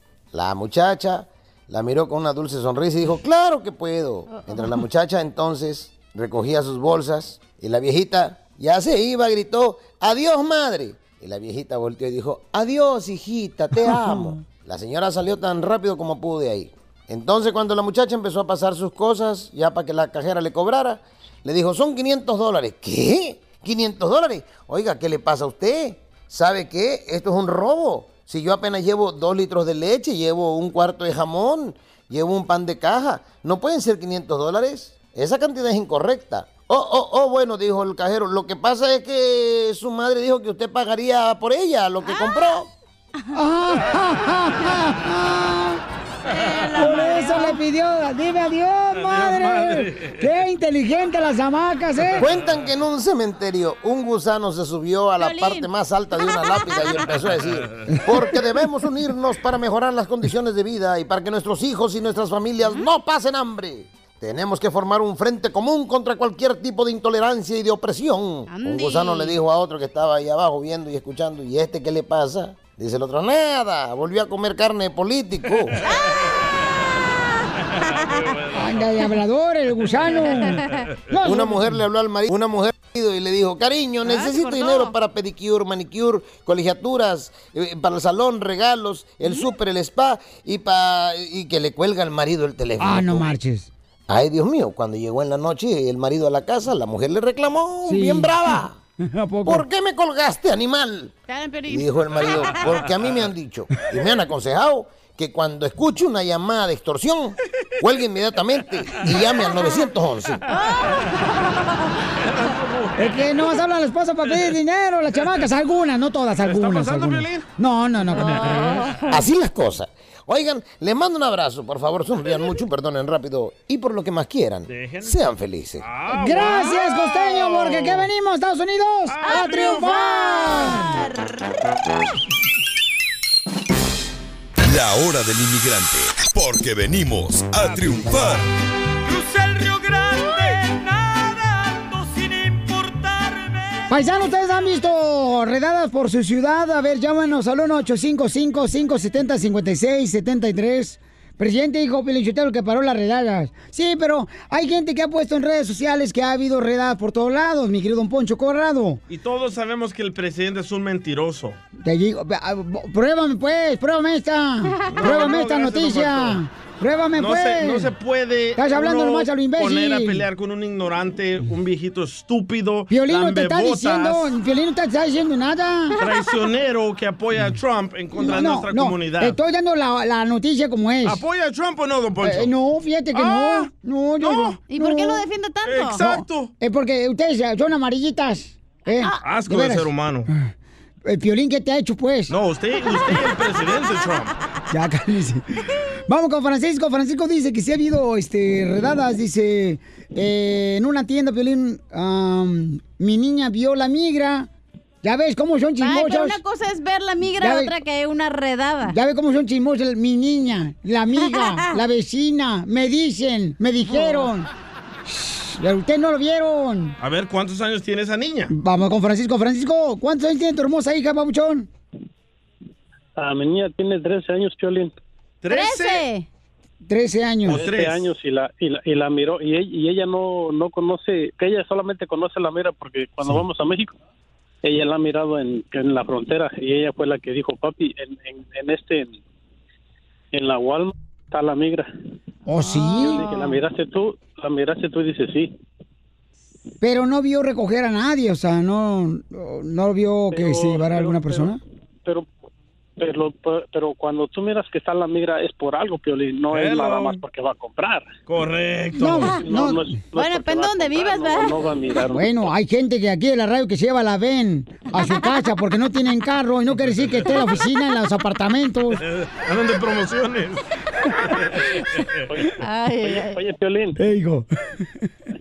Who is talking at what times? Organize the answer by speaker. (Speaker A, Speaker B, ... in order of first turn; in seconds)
Speaker A: 0.3-42.7, 52.2-75.8, 81.2-93.3, 94.1-98.7, 99.5-101.1, 101.7-110.4, 119.1-125.8
Speaker B: 4.3-4.7, 42.0-42.5, 46.2-47.6, 55.2-57.0, 68.5-69.3, 75.8-76.3, 76.9-78.4, 80.2-80.8, 84.0-84.9, 101.3-102.7, 110.5-112.5, 118.1-119.1, 129.2-131.4, 184.7-186.0, 205.8-208.9, 211.2-211.8, 225.5-226.3, 242.6-243.6, 259.1-259.4, 260.1-261.6, 265.0-265.3, 272.6-273.4
Speaker C: 13.8-14.4, 43.3-45.8, 46.7-52.2, 78.5-81.8, 92.8-93.7, 97.8-99.6, 113.0-119.0, 126.1-130.9, 143.9-159.0, 161.8-167.9, 168.6-170.3, 172.9-176.0, 178.1-181.2, 182.2-185.2, 186.0-190.5, 191.0-192.3, 194.7-195.4, 196.1-204.5, 205.0-206.4, 207.4-207.7, 208.9-214.5, 215.1-216.9, 218.5-221.7, 226.9-227.6, 242.4-243.3, 246.8-251.6, 258.9-260.0, 262.1-269.0, 274.0-275.0
Speaker D: 49.0-50.2, 78.0-78.8, 112.3-113.1, 116.4-117.4, 124.7-125.2, 125.8-128.1, 129.1-129.8, 137.8-138.2, 159.1-161.6, 164.9-166.4, 167.2-174.3, 176.0-179.3, 181.0-182.5, 183.2-183.6, 184.2-184.5, 185.6-186.5, 189.2-190.3, 192.3-194.3, 217.0-218.5, 225.4-226.0, 227.5-228.0, 256.5-257.2, 258.3-259.4, 269.1-270.6
Speaker E: 134.6-138.5
Speaker F: 139.0-143.9
Speaker G: 223.2-224.9, 227.5-233.9, 234.6-239.2, 240.3-241.9, 242.9-245.5, 250.3-252.3, 253.0-258.1, 259.4-262.5, 273.0-274.0